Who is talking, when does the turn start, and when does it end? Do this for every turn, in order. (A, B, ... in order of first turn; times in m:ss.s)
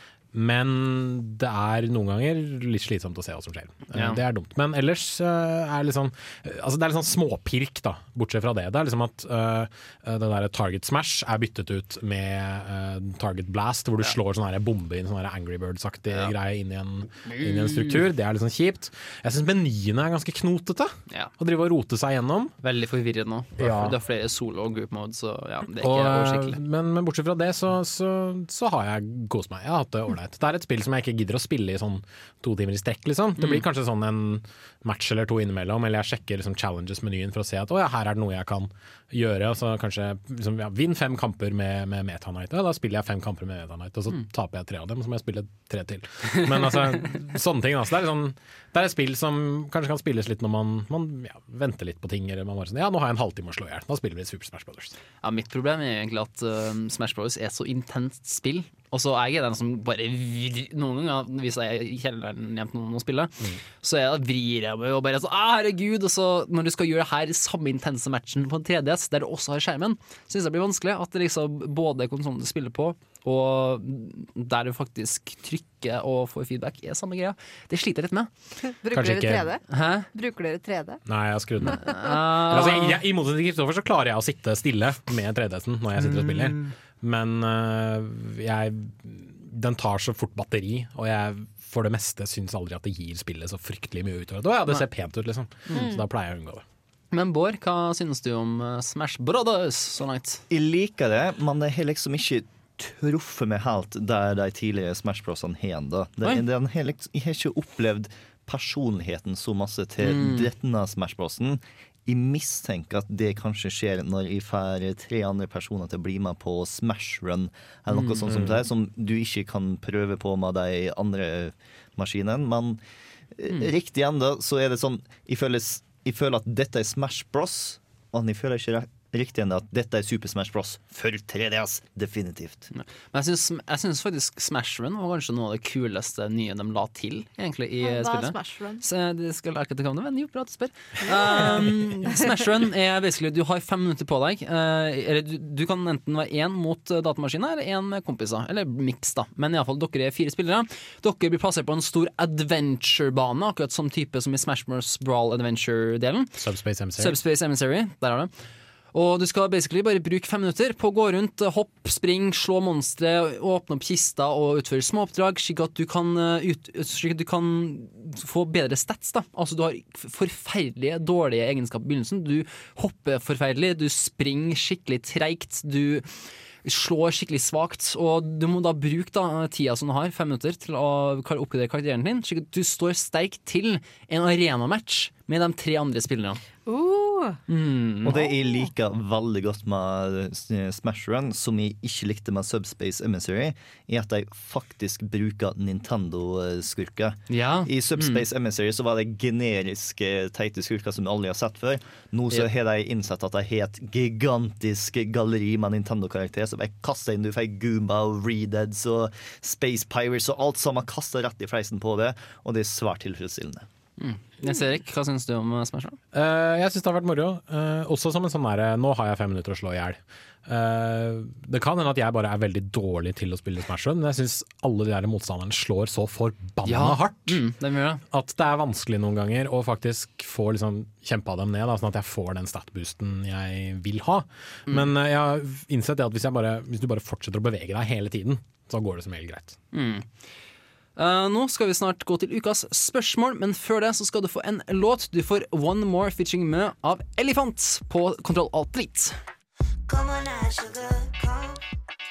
0:00.3-0:22.5 A
0:03.9-0:04.2 B
0:16.1-0:16.4 B
0:17.2-0:18.0 B
0:22.6-0:26.6 B
0:23.6-0:23.9 A
0:25.8-0:55.0 A
0:33.4-0:33.6 B
0:55.2-1:18.3 B
1:18.6-1:21.0 C
1:18.9-1:19.4 A
1:19.7-1:20.1 B
1:21.1-1:36.6 A
1:21.6-1:23.0 B
1:26.0-1:26.7 B
1:35.7-1:36.1 C
1:37.1-1:40.4 B
1:40.5-2:02.8 D
1:50.0-1:50.5 B
1:57.9-1:58.2 B
1:58.3-1:58.6 A
2:03.4-2:12.7 D
2:12.7-2:36.4 B
2:17.8-2:18.8 C
2:21.1-2:21.5 C
2:36.4-2:37.2 A
2:37.0-2:38.3 B
2:38.9-3:06.4 B
3:06.6-3:07.4 C
3:07.5-3:08.2 B
3:08.0-3:33.7 D
3:17.3-3:18.2 B
3:34.0-3:36.0 B
3:36.1-3:47.4 A
3:46.6-3:48.0 B
3:48.1-3:59.6 A
3:59.7-4:00.1 B
4:01.0-4:09.2 B